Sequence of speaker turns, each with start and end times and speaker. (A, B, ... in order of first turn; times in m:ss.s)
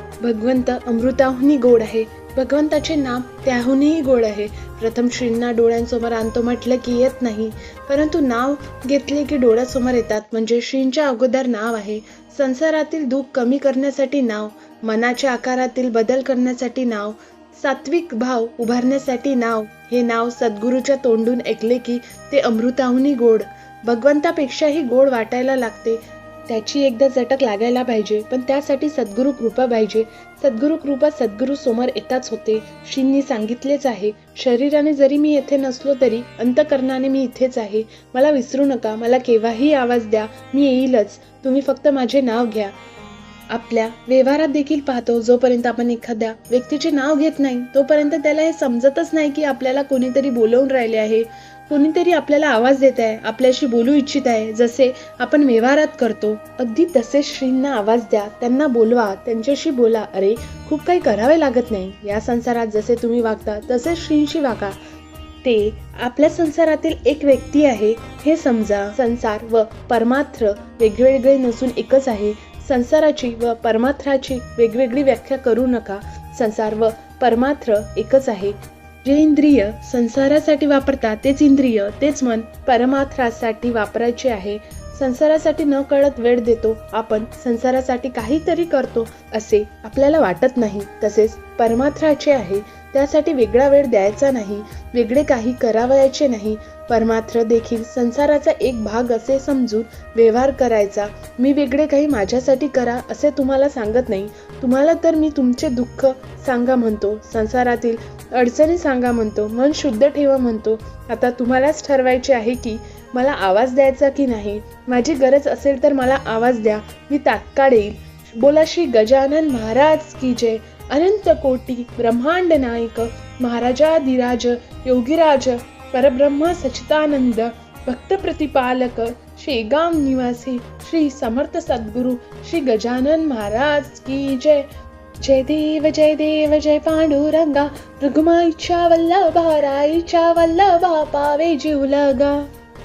0:00.2-0:42.7 A
0:43.5-1:04.8 A
1:05.4-2:14.7 A
2:15.2-2:22.5 A